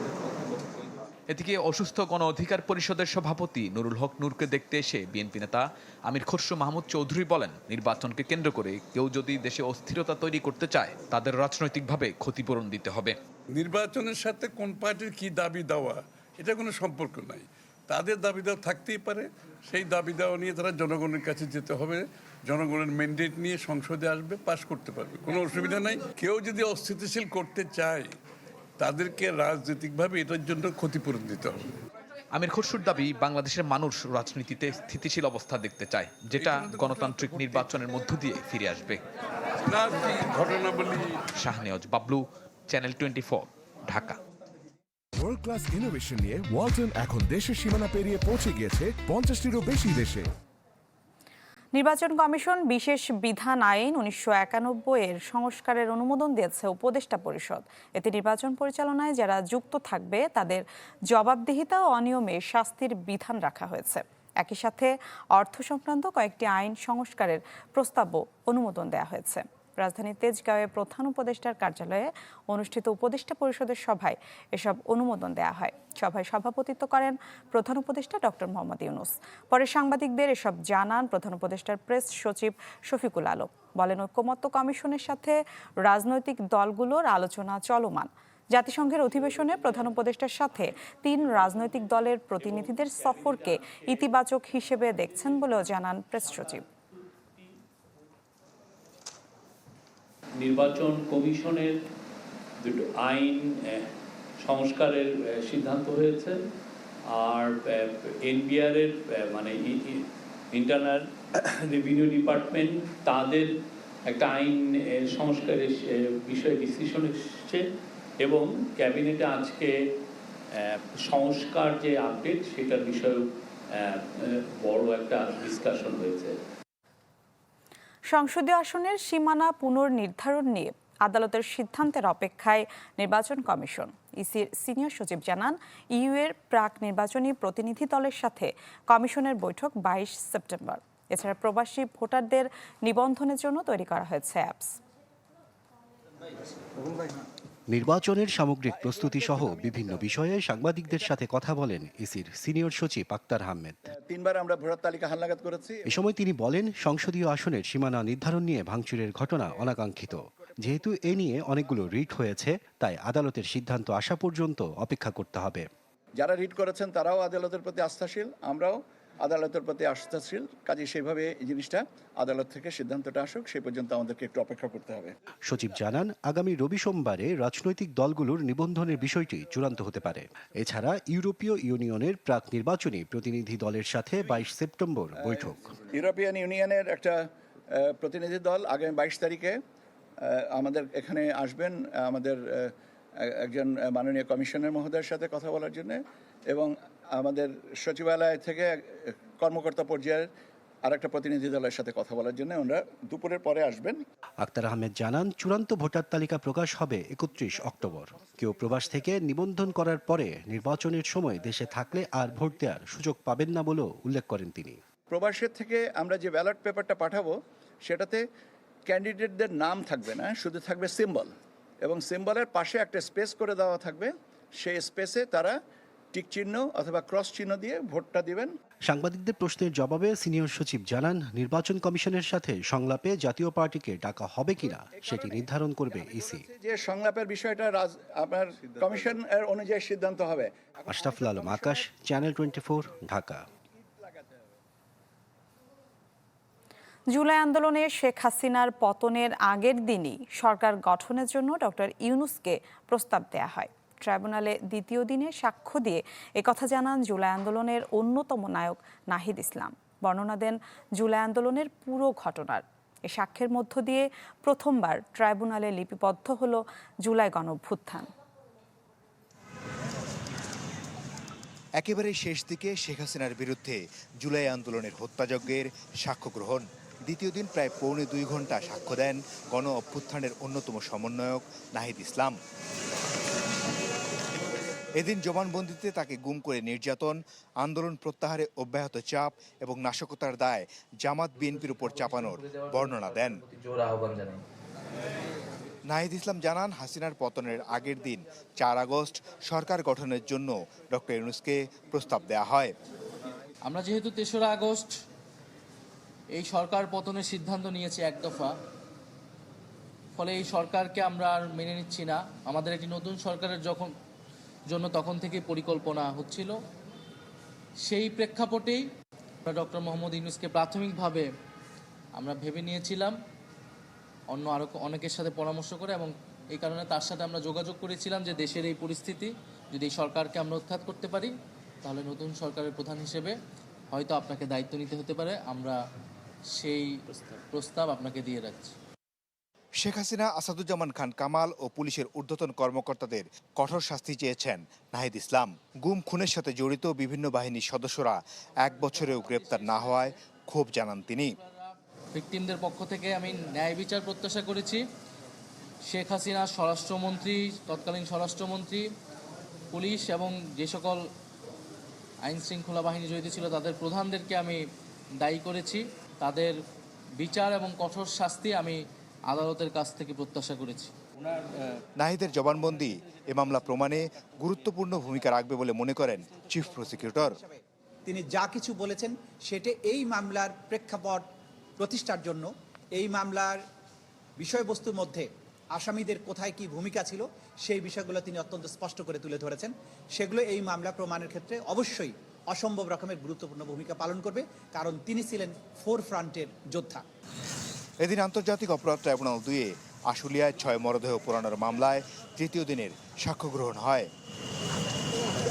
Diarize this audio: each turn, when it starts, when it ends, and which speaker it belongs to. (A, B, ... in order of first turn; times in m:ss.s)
0:01.3-0:13.2 A
0:13.6-0:28.1 B
0:28.8-0:31.6 B
0:32.4-0:39.0 A
0:36.4-0:37.7 B
0:39.6-0:41.0 B
0:41.4-0:44.2 A
0:45.2-0:50.3 C
0:51.7-1:36.6 D
1:33.0-1:33.8 E
1:40.4-1:41.8 E
1:42.6-1:43.9 E
1:44.4-1:46.4 E
1:47.1-1:53.5 E
1:54.1-1:57.6 E
1:58.2-1:59.7 E
2:00.7-2:03.2 E
2:03.8-2:06.4 E
2:08.1-2:24.8 D
2:27.7-2:33.8 F
2:28.8-2:30.1 G
2:34.0-2:35.8 G
2:35.9-2:45.7 F
2:46.2-2:55.1 G
2:55.4-3:05.8 F
3:05.3-3:09.6 G
3:10.2-3:12.7 G
3:13.2-3:20.3 G
3:20.8-3:24.0 G
3:24.4-3:34.8 F
3:35.1-3:38.2 G
3:38.9-3:41.3 G
3:41.8-3:45.6 G
3:46.1-3:48.5 G
3:48.9-3:56.5 F
3:55.0-4:01.8 G
4:00.9-4:03.5 F
4:04.0-4:04.4 G
4:07.1-4:28.1 D
4:31.8-4:42.4 H
4:45.0-4:53.4 H
4:55.9-5:02.7 H
5:03.7-5:04.9 I
5:06.4-5:08.5 I
5:10.2-5:13.9 I
5:14.7-5:16.6 I
5:17.9-5:18.9 I
5:19.5-5:21.3 I
5:22.2-5:23.1 I
5:24.3-5:33.4 I
5:33.9-5:35.8 I
5:36.6-5:37.0 I
5:37.5-5:38.7 I
5:39.8-5:51.4 H
5:48.7-5:50.2 I
5:51.4-5:54.8 I
5:55.9-5:58.9 I
5:59.7-6:01.1 I
6:02.2-6:04.6 I
6:05.2-6:06.6 I
6:07.2-6:10.9 I
6:12.0-6:17.4 H
6:17.4-6:21.2 J
6:21.8-6:23.6 J
6:24.4-6:37.0 J
6:38.0-6:44.1 H